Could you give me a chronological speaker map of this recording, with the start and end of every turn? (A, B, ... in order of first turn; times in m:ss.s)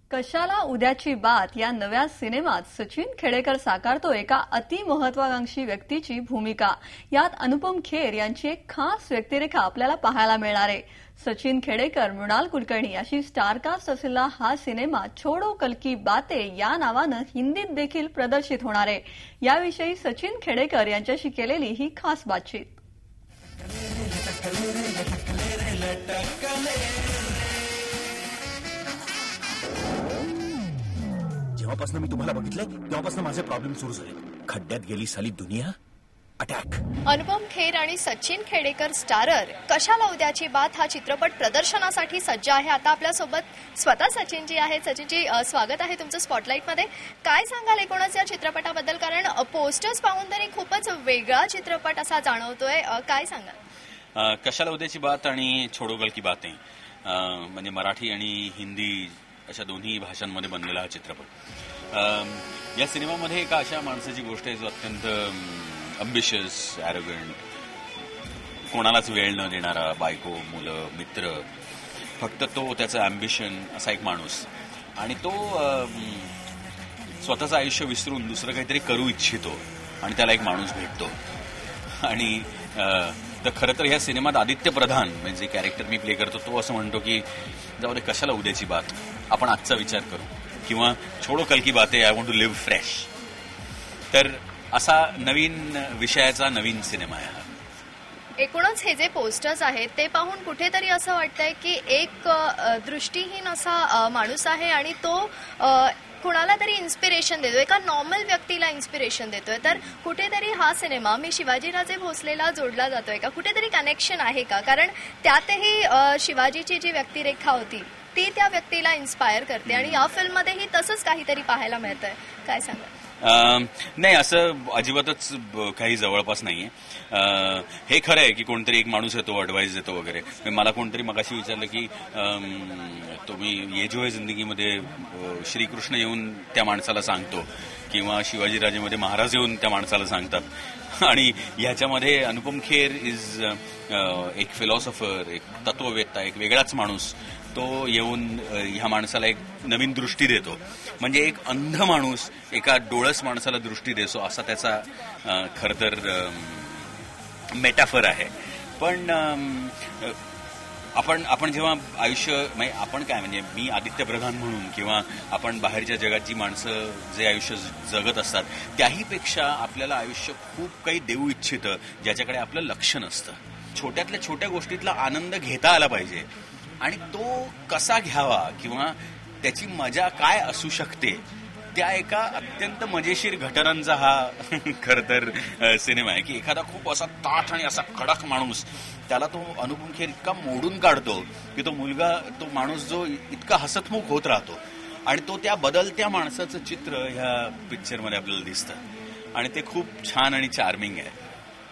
0:00.1-0:22.8 A
0:25.1-0:26.5 B
0:31.6-0:35.7 B
0:32.4-0:33.1 C
0:34.5-0:35.5 C
0:36.4-0:36.7 B
0:37.0-0:53.6 D
0:54.1-1:01.3 C
1:01.9-1:07.4 C
1:08.7-1:11.5 C
1:12.2-1:16.3 C
1:17.2-1:21.2 C
1:22.0-1:27.3 C
1:27.8-1:33.1 C
1:34.1-1:37.5 C
1:38.4-2:02.9 D
1:59.7-2:00.1 C
2:03.2-2:37.0 C
2:37.5-2:40.2 C
2:41.0-2:56.3 C
2:56.8-3:18.8 C
3:19.3-3:21.2 C